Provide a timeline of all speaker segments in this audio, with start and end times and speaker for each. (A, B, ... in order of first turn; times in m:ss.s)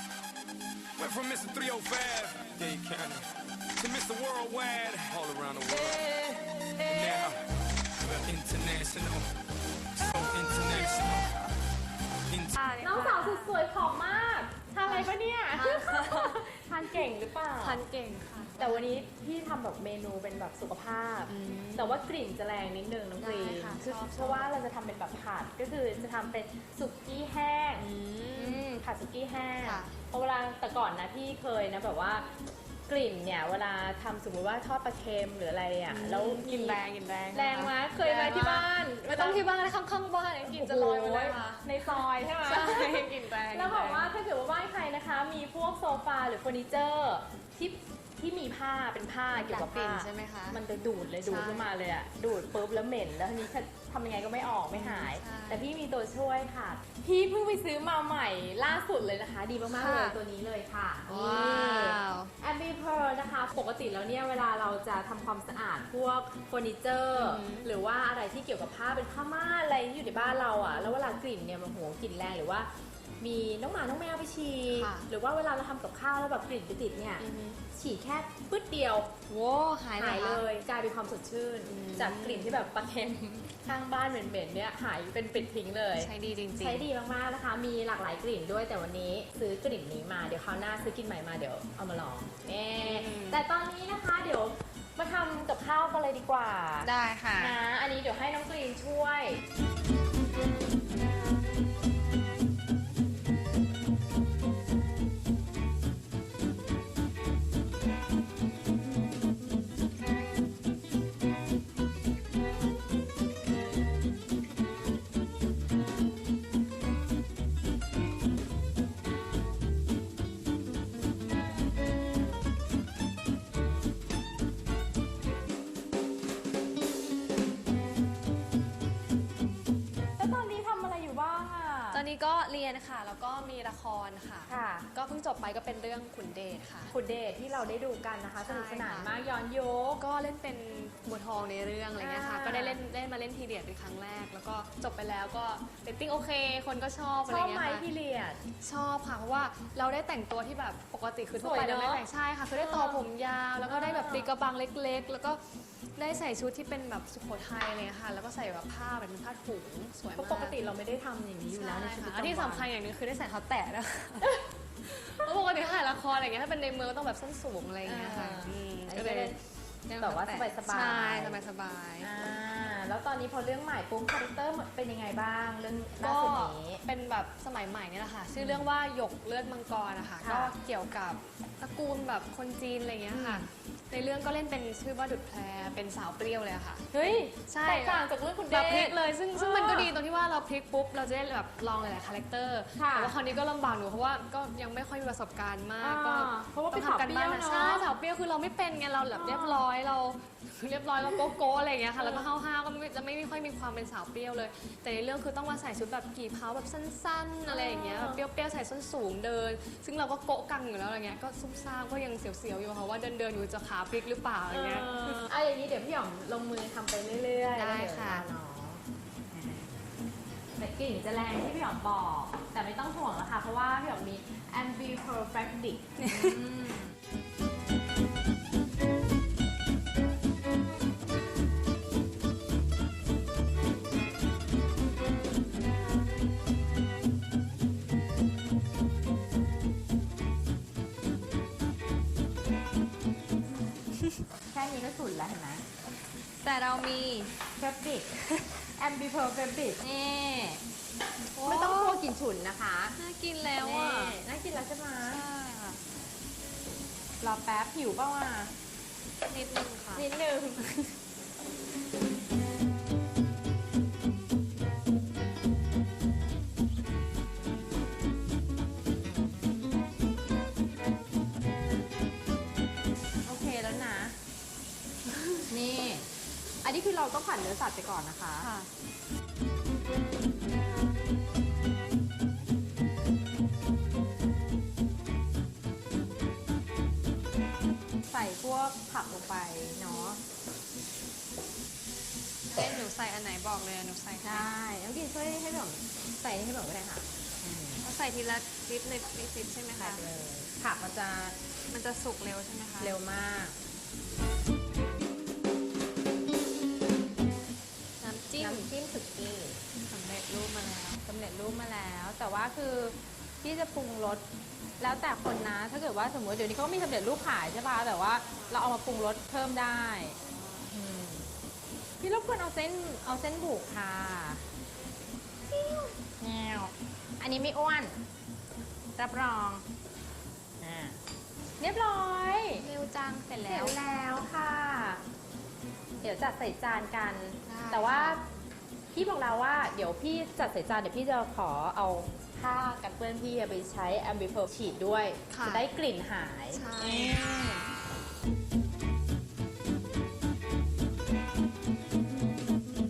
0:01.0-0:07.4 A
0:06.8-0:07.2 B
0:08.0-0:09.3 A
0:10.0-0:11.3 A
0:12.3-0:12.6 A
0:12.5-0:13.6 B
0:12.8-0:17.8 C
0:14.8-0:17.0 B
0:17.6-0:18.8 B
0:18.6-0:36.8 C
0:21.3-0:22.0 B
0:23.2-0:24.5 B
0:27.8-0:28.6 B
0:29.6-0:29.9 B
0:35.9-0:44.1 B
0:37.3-0:39.4 C
0:40.4-1:12.7 C
0:49.3-0:50.6 B
0:51.2-0:51.7 B
0:54.7-0:55.6 B
0:59.7-1:00.2 B
1:01.1-1:02.3 B
1:07.1-1:07.7 B
1:13.2-1:19.1 C
1:14.7-1:15.1 B
1:17.2-1:17.6 B
1:19.3-1:20.4 B
1:20.0-1:39.4 C
1:21.6-1:22.6 B
1:26.0-1:26.9 B
1:32.8-1:33.4 B
1:36.8-1:37.6 B
2:10.2-2:12.0 C
2:11.9-2:16.9 B
2:14.5-2:14.9 C
2:16.9-2:20.0 C
2:18.4-2:19.1 B
2:20.0-2:27.8 B
2:22.0-2:22.8 C
2:27.3-2:28.4 C
2:28.6-2:35.4 B
2:31.4-2:33.0 C
2:33.6-2:34.3 C
2:36.0-2:40.6 B
2:40.1-2:42.7 C
2:41.5-2:49.3 B
2:47.8-2:49.4 C
2:49.9-2:52.1 B
2:50.0-2:51.4 C
2:52.0-2:56.8 C
2:56.0-3:06.8 B
2:58.4-2:58.7 C
3:00.2-3:00.5 C
3:03.1-3:03.5 C
3:06.9-3:10.0 C
3:07.5-3:35.3 B
3:12.8-3:13.2 C
3:15.8-3:17.9 C
3:19.1-3:19.6 C
3:22.0-3:22.2 C
3:27.5-3:28.2 C
3:34.5-3:39.6 C
3:37.5-3:38.3 B
3:40.5-3:46.9 C
4:04.5-4:05.6 C
4:06.4-4:07.4 B
4:07.6-4:08.1 C
4:08.6-4:10.6 C
4:11.3-4:12.0 B
4:11.4-4:13.0 C
4:13.0-4:14.2 B
4:13.6-4:15.2 C
4:15.0-4:15.9 B
4:17.2-4:18.5 C
4:19.3-4:20.0 B
4:19.9-4:20.9 C
4:33.2-4:34.2 C
4:35.4-4:36.1 C
4:36.6-4:38.5 C
4:38.4-4:38.7 B
4:48.1-4:50.2 C
4:52.5-4:54.5 B
4:54.2-4:57.8 C
4:57.8-5:00.1 B
4:59.8-5:01.4 C
5:01.7-5:02.9 B
5:02.8-5:03.6 C
5:08.0-5:08.7 B
5:08.4-5:09.6 C
5:09.8-5:11.0 B
5:11.0-5:14.2 C
5:14.8-5:21.2 C
5:20.3-5:20.6 B
5:22.0-5:24.4 C
5:25.5-5:28.0 C
5:29.0-5:29.6 C
5:30.6-5:31.0 C
5:31.6-5:32.7 C
5:32.6-5:33.8 B
5:33.4-5:35.0 C
5:36.0-5:38.2 C
5:37.4-5:38.2 B
5:38.9-5:47.6 C
5:45.3-5:45.7 B
5:46.5-5:47.6 B